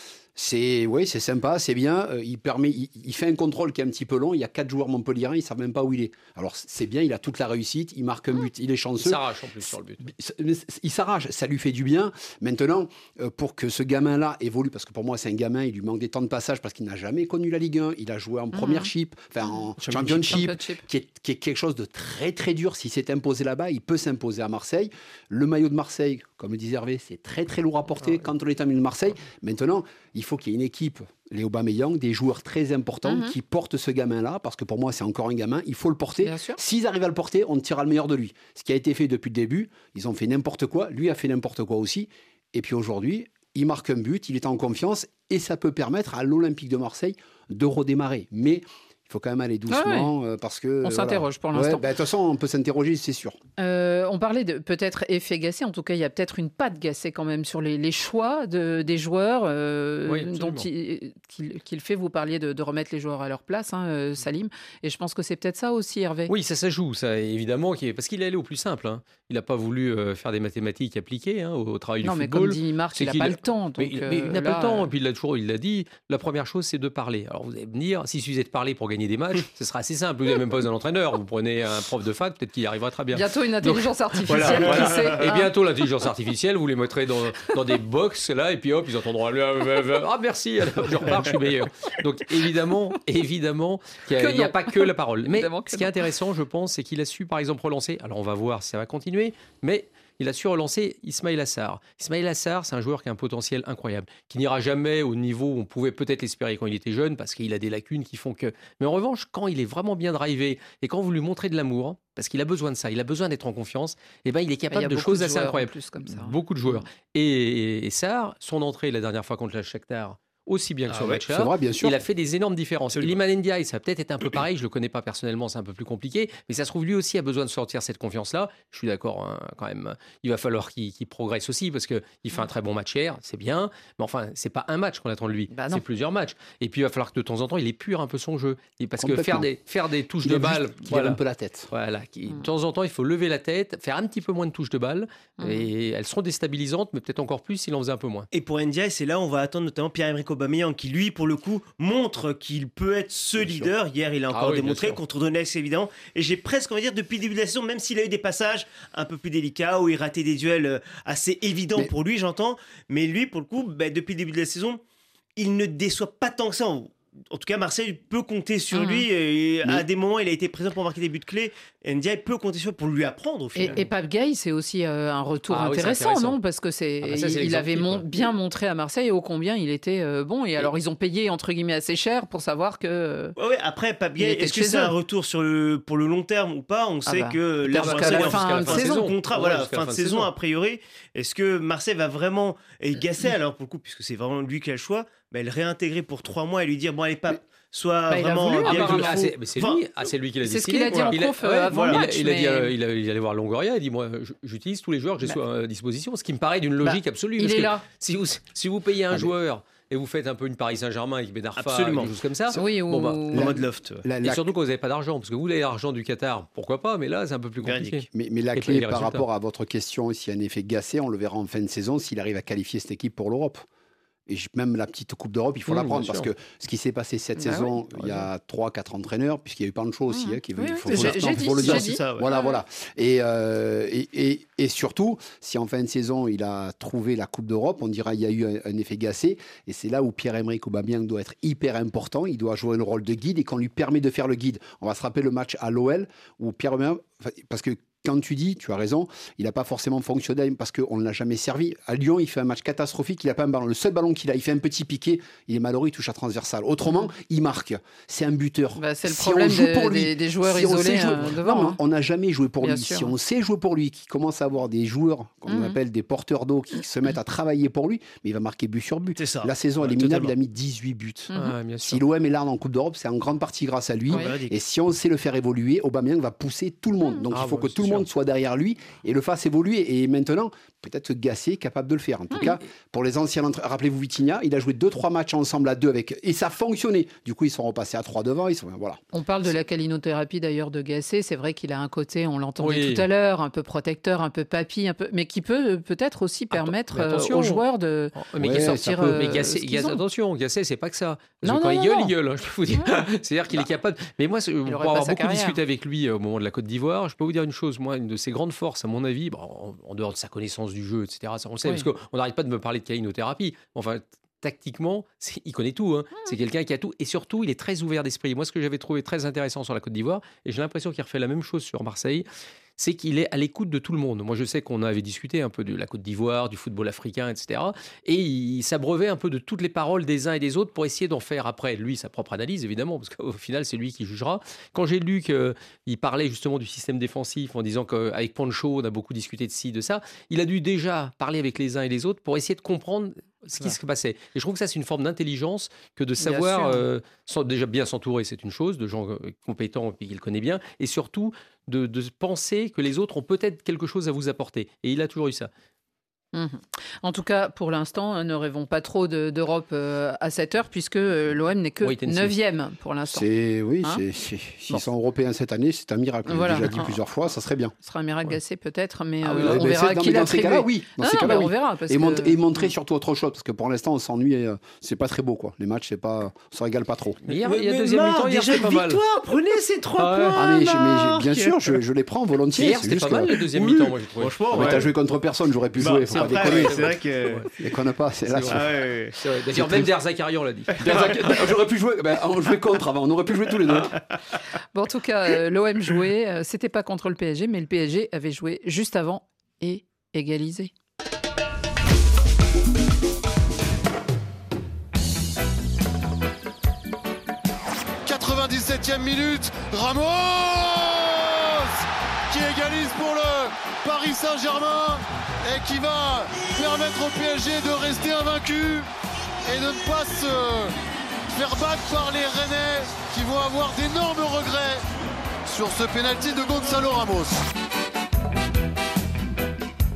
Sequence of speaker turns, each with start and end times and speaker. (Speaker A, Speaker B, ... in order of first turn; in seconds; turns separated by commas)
Speaker A: 0.4-9.2, Speaker B: 9.0-10.1, Speaker A: 10.0-53.4, Speaker C: 18.5-18.9, Speaker C: 19.8-20.8, Speaker C: 33.1-33.3, Speaker C: 36.2-36.6, Speaker C: 49.7-50.1, Speaker C: 50.8-51.8, Speaker C: 53.6-66.3, Speaker B: 60.1-60.7, Speaker B: 66.3-141.2, Speaker C: 72.0-74.9, Speaker C: 83.1-85.5, Speaker D: 84.3-85.2, Speaker C: 94.1-95.9, Speaker C: 114.7-116.8, Speaker A: 120.9-122.0, Speaker C: 135.5-135.8, Speaker A: 139.0-139.5, Speaker A: 140.2-141.7, Speaker B: 141.7-148.3, Speaker C: 145.4-145.7, Speaker D: 148.3-164.8, Speaker A: 153.4-153.7, Speaker B: 154.3-155.0, Speaker D: 165.4-173.8, Speaker C: 168.7-169.1, Speaker C: 173.6-183.3, Speaker B: 175.5-176.4, Speaker B: 177.0-178.1, Speaker D: 183.4-199.8, Speaker C: 184.2-184.9, Speaker C: 187.1-189.1, Speaker B: 187.6-190.3, Speaker C: 198.1-199.2, Speaker B: 198.7-213.3, Speaker C: 200.4-202.7, Speaker D: 201.7-202.0, Speaker C: 206.8-207.8, Speaker D: 211.6-212.1, Speaker C: 212.5-213.5, Speaker A: 213.3-214.5, Speaker D: 213.3-214.0, Speaker B: 214.2-219.2, Speaker D: 217.6-218.0, Speaker A: 218.1-223.7, Speaker A: 224.3-271.3, Speaker B: 225.7-226.3, Speaker C: 227.4-228.1, Speaker C: 230.1-232.6, Speaker D: 230.9-232.3, Speaker C: 258.8-261.8, Speaker C: 262.6-263.1, Speaker C: 265.5-265.8, Speaker D: 269.2-270.3, Speaker B: 271.3-272.0, Speaker A: 271.8-289.0, Speaker C: 274.1-274.3, Speaker D: 274.1-274.6, Speaker B: 277.3-278.1, Speaker C: 289.1-300.0, Speaker B: 292.6-293.1, Speaker B: 296.5-322.3, Speaker A: 298.4-299.2, Speaker C: 301.4-302.1, Speaker C: 302.7-303.0, Speaker C: 304.7-305.6, Speaker B: 322.8-355.5, Speaker C: 346.2-346.8, Speaker C: 356.3-363.3, Speaker B: 361.8-362.4, Speaker A: 363.1-367.7, Speaker C: 366.3-366.9, Speaker C: 367.8-372.6, Speaker B: 369.3-369.6, Speaker A: 369.4-377.2, Speaker B: 377.3-379.0, Speaker D: 377.3-381.6, Speaker B: 380.0-380.5, Speaker A: 380.3-384.0, Speaker B: 382.5-384.9, Speaker D: 384.2-384.9, Speaker A: 384.5-386.9, Speaker D: 385.8-387.5, Speaker B: 385.9-387.5, Speaker A: 387.6-388.7, Speaker B: 388.3-391.1, Speaker D: 388.5-389.1, Speaker A: 389.5-389.9, Speaker A: 390.8-394.0, Speaker D: 390.8-391.4, Speaker C: 394.7-400.7, Speaker E: 408.1-418.9, Speaker E: 419.5-420.7, Speaker E: 421.3-424.8, Speaker E: 425.4-427.4